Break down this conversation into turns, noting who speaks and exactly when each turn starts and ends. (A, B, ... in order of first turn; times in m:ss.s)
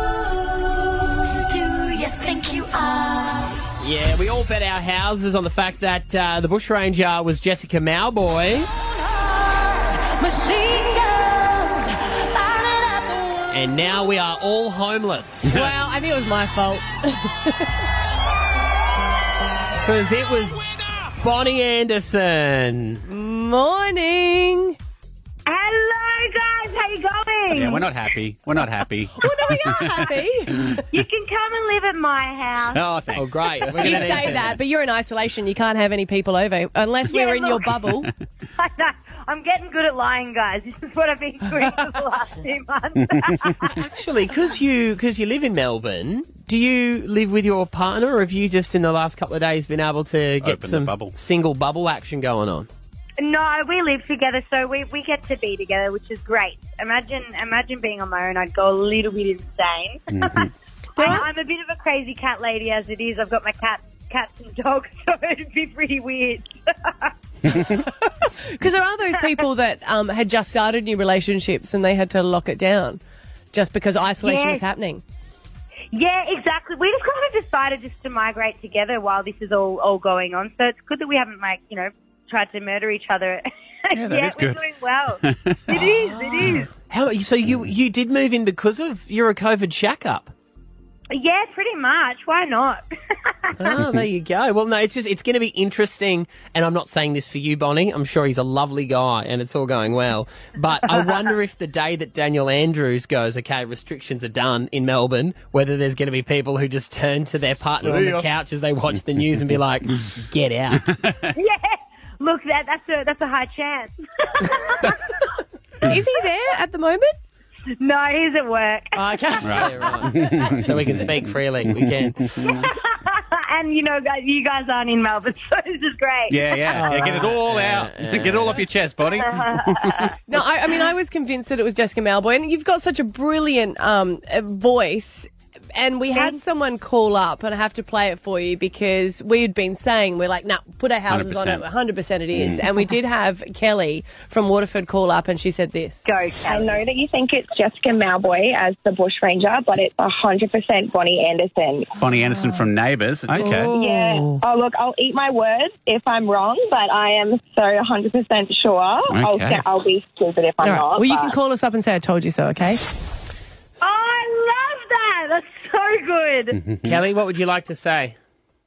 0:00.7-0:03.6 A
0:03.8-0:08.7 B
0:09.1-0:13.2 A
0:13.5-0:15.7 B
0:15.4-0:17.7 C
0:19.8-0:23.0 B
0:23.0-0:24.8 C
0:25.4-0:27.9 D
0:27.5-0:30.8 E
0:29.2-0:30.6 C
0:30.9-0:32.8 D
0:32.6-0:34.3 E
0:33.1-0:34.6 B
0:33.7-0:38.1 C
0:37.1-0:37.6 D
0:38.6-0:43.7 D
0:43.8-0:52.7 B
0:50.4-0:51.2 E
0:53.2-1:07.1 D
1:00.1-1:00.4 E
1:01.0-1:01.2 C
1:07.5-1:13.0 C
1:13.5-1:15.0 C
1:14.2-1:14.6 D
1:15.9-1:26.7 D
1:23.9-1:24.6 E
1:25.2-1:25.8 E
1:25.8-1:30.3 B
1:31.1-1:33.7 D
1:33.6-1:50.8 B
1:47.8-1:48.2 E
1:50.8-1:51.2 E
1:51.3-1:54.9 D
1:55.8-1:57.1 C
1:57.8-1:59.6 D
1:58.9-1:59.8 C
1:59.4-2:01.2 E
1:59.5-2:02.5 B
2:01.7-2:02.5 E
2:02.4-2:06.6 D
2:06.3-2:10.1 E
2:06.7-2:07.3 C
2:06.9-2:08.6 B
2:09.2-2:10.1 D
2:10.3-2:26.0 C
2:16.1-2:16.4 D
2:21.1-2:21.6 E
2:22.3-2:22.6 E
2:26.0-2:26.8 D
2:26.5-2:31.9 F
2:32.0-2:33.7 E
2:33.3-2:34.4 C
2:33.4-2:41.4 F
2:39.1-2:39.6 E
2:40.6-2:42.8 C
2:43.8-2:46.6 D
2:46.6-2:47.0 E
2:46.8-2:48.2 B